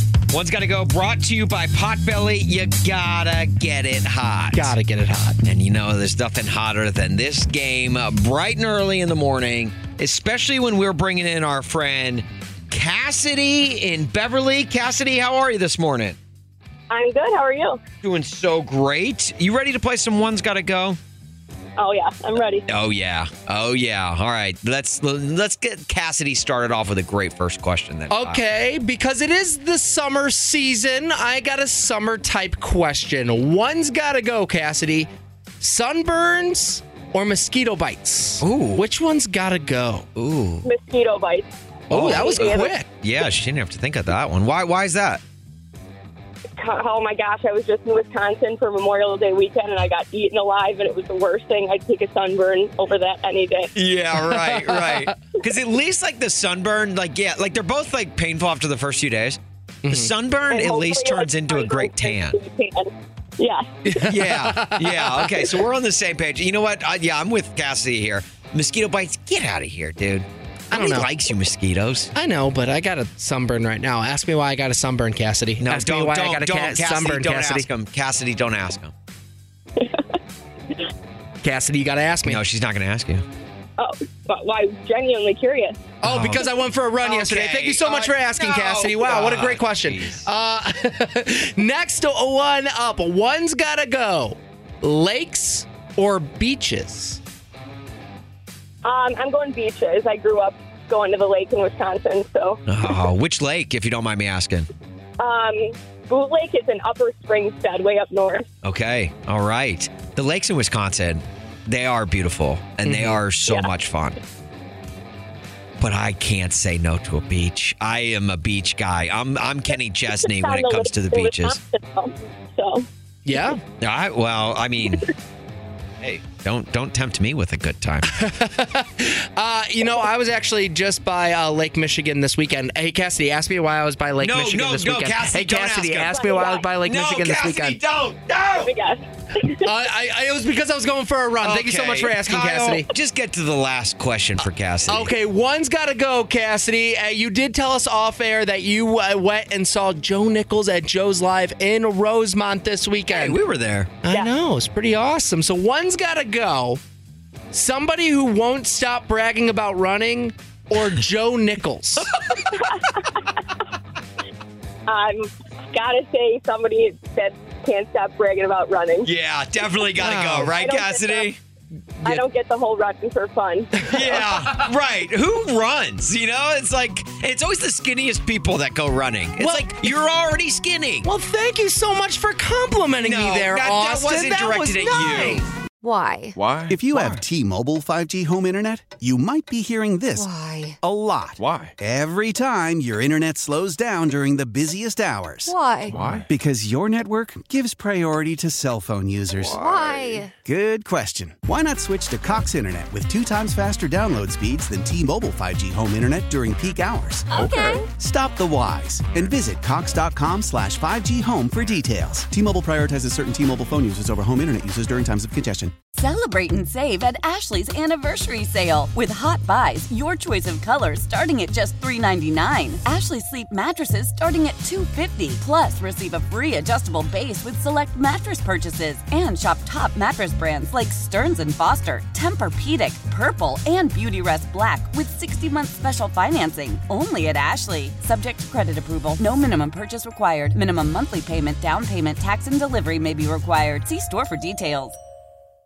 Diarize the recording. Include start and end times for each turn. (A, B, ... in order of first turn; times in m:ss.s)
0:00.3-0:04.8 A
0:04.5-0:05.4 B
0:05.4-0:16.2 A
0:16.9-0:17.8 C
0:18.0-0:21.0 A
0:21.8-0:22.6 C
0:22.4-0:28.4 A
0:28.1-0:35.1 B
0:35.6-0:40.1 B
0:38.4-0:38.8 A
0:40.2-0:40.7 A
0:40.6-0:42.7 C
0:41.9-0:42.9 B
0:41.9-0:45.2 A
0:46.6-0:53.7 C
0:53.7-1:02.4 A
0:54.4-0:55.1 B
0:59.8-1:00.1 B
1:00.5-1:04.0 C
1:03.9-1:05.2 B
1:04.0-1:12.1 A
1:10.7-1:11.1 B
1:12.1-1:17.7 B
1:15.6-1:18.9 A
1:21.4-1:22.4 B
1:22.3-1:23.2 A
1:23.8-1:25.8 C
1:26.0-1:37.2 B
1:26.0-1:26.4 A
1:27.0-1:30.2 A
1:38.8-1:42.6 C
1:42.7-1:44.7 A
1:45.2-1:48.5 C
1:48.6-1:54.2 A
1:52.8-1:53.2 B
1:55.8-2:01.6 A
2:00.1-2:02.9 C
2:03.3-2:03.6 B
2:03.8-2:05.1 A
2:06.0-2:08.1 A
2:08.1-2:17.8 B
2:14.2-2:18.7 A
2:16.1-2:16.7 C
2:18.5-2:19.7 C
2:19.6-2:22.9 B
2:21.4-2:25.1 A
2:24.9-2:33.4 B
2:33.1-2:34.0 A
2:34.0-2:36.8 B
2:37.5-2:42.1 B
2:42.6-2:43.0 C
2:44.9-2:49.1 C
2:49.0-2:51.4 A
2:50.0-2:50.5 B
2:50.4-2:51.3 C
2:52.0-2:54.2 C
2:53.8-3:01.1 A
2:59.4-2:59.8 B
3:01.0-3:05.5 B
3:03.0-3:05.5 A
3:05.8-3:06.3 D
3:06.4-3:06.8 E
3:06.7-3:35.7 F
3:10.2-3:10.7 D
3:11.4-3:11.7 E
3:15.5-3:15.9 D
3:15.9-3:16.3 E
3:19.4-3:20.3 E
3:19.8-3:20.2 D
3:27.3-3:27.8 E
3:36.0-4:05.0 G